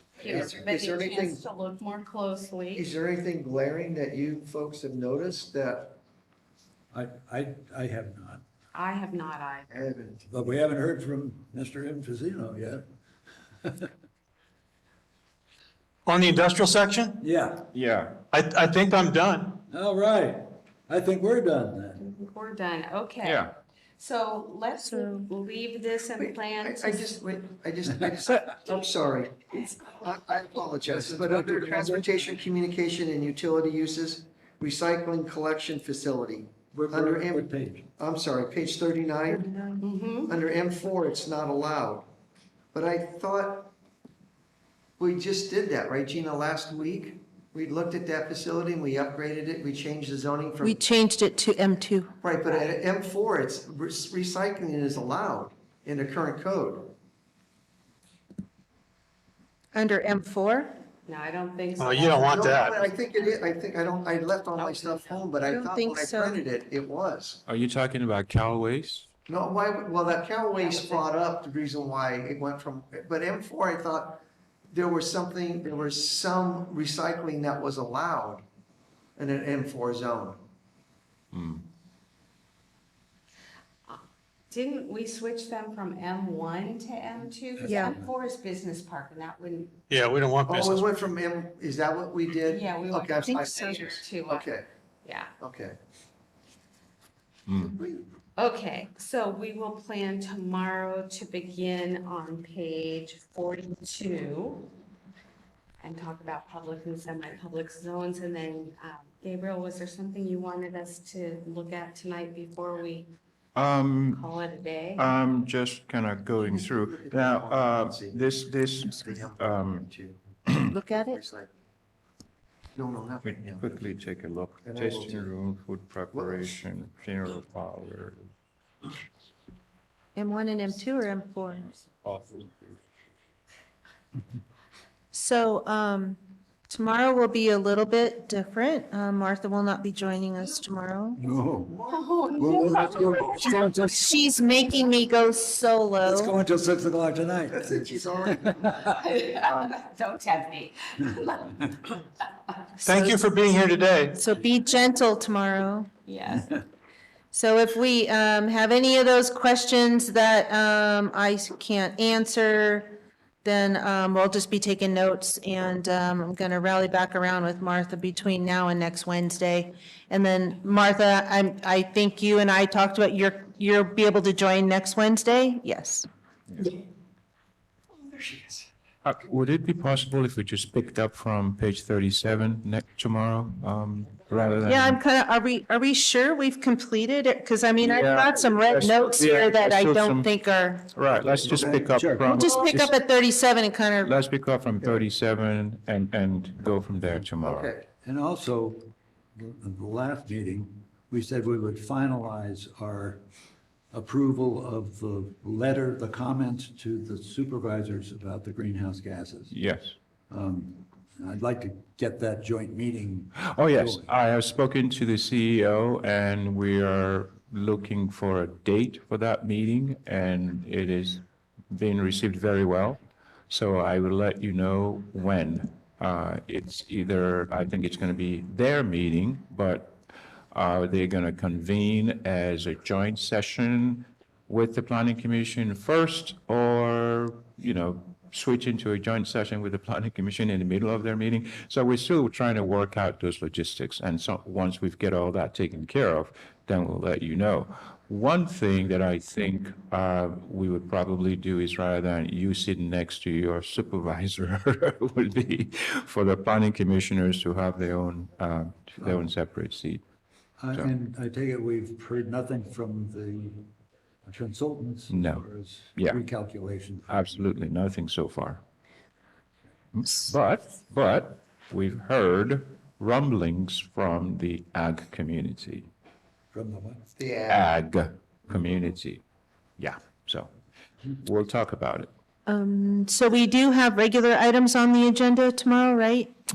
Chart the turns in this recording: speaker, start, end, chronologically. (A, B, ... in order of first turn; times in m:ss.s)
0:00.2-0:02.9 A
0:00.2-0:01.4 B
0:02.8-0:06.0 B
0:06.9-0:08.4 C
0:08.7-0:09.9 A
0:09.7-0:10.3 B
0:10.3-0:12.8 C
0:13.6-0:13.9 C
0:16.0-0:17.2 D
0:17.2-0:17.7 C
0:17.7-0:18.2 E
0:18.3-0:19.6 D
0:19.7-0:22.0 C
0:22.0-0:27.1 A
0:23.2-0:23.5 E
0:24.8-0:25.3 F
0:26.2-0:39.4 B
0:30.8-0:32.3 C
0:36.7-0:37.9 C
0:39.3-0:39.8 F
0:39.8-0:40.3 A
0:40.3-0:42.1 B
0:42.7-0:43.7 B
0:45.0-0:50.8 B
0:50.6-0:52.1 F
0:52.2-0:56.9 B
0:52.4-0:52.7 A
0:59.7-1:00.7 F
1:01.1-1:03.4 A
1:01.8-1:02.9 D
1:02.2-1:07.4 B
1:04.6-1:05.3 A
1:05.5-1:06.4 F
1:07.4-1:09.1 E
1:09.3-1:18.4 B
1:10.5-1:11.1 A
1:19.2-1:20.4 B
1:21.3-1:21.7 E
1:23.9-1:29.8 A
1:27.6-1:28.0 F
1:29.9-1:30.9 D
1:30.4-1:34.7 B
1:32.5-1:34.5 A
1:33.2-1:33.8 F
1:35.0-1:35.3 A
1:35.4-1:35.8 B
1:37.5-1:37.8 E
1:37.7-1:38.0 B
1:38.4-1:44.7 A
1:45.8-1:53.1 A
1:53.6-1:54.2 E
1:54.1-1:55.1 A
1:55.0-1:59.9 E
1:56.4-2:00.2 B
2:00.7-2:01.2 F
2:01.0-2:01.5 B
2:02.7-2:03.9 B
2:03.2-2:08.2 E
2:04.6-2:05.3 B
2:06.1-2:06.6 B
2:10.1-2:11.7 F
2:12.0-2:12.8 E
2:15.1-2:21.2 F
2:21.2-2:21.8 C
2:21.6-2:23.4 B
2:21.9-2:23.5 A
2:22.4-2:24.2 C
2:23.9-2:26.4 F
2:26.0-2:27.8 C
2:27.5-2:28.7 B
2:28.8-2:32.0 A
2:29.5-2:29.7 B
2:32.8-2:34.2 D
2:32.8-2:33.2 F
2:34.2-2:35.9 F
2:36.1-2:36.6 A
2:37.3-2:56.1 F
2:58.0-2:58.7 B
2:59.0-3:05.0 E
3:04.6-3:10.9 F
3:07.8-3:10.3 E
3:10.9-3:12.9 E
3:11.1-3:12.3 C
3:12.2-3:14.1 F
3:14.0-3:17.7 E
3:17.4-3:17.9 B
3:18.0-3:23.2 C
3:23.9-3:29.6 C
3:29.5-3:30.0 E
3:30.3-3:34.1 C
3:33.4-3:49.9 E
3:50.5-4:20.0 E
4:19.0-4:19.3 C
4:20.6-4:23.7 C
4:24.2-4:27.4 C
4:25.1-4:26.2 E
4:27.1-4:28.6 E
4:29.9-4:35.9 E
4:36.5-4:37.1 C
4:37.2-4:37.7 B
4:37.5-4:39.2 E
4:39.8-4:40.5 E
4:41.2-4:42.1 E
4:42.5-4:46.3 F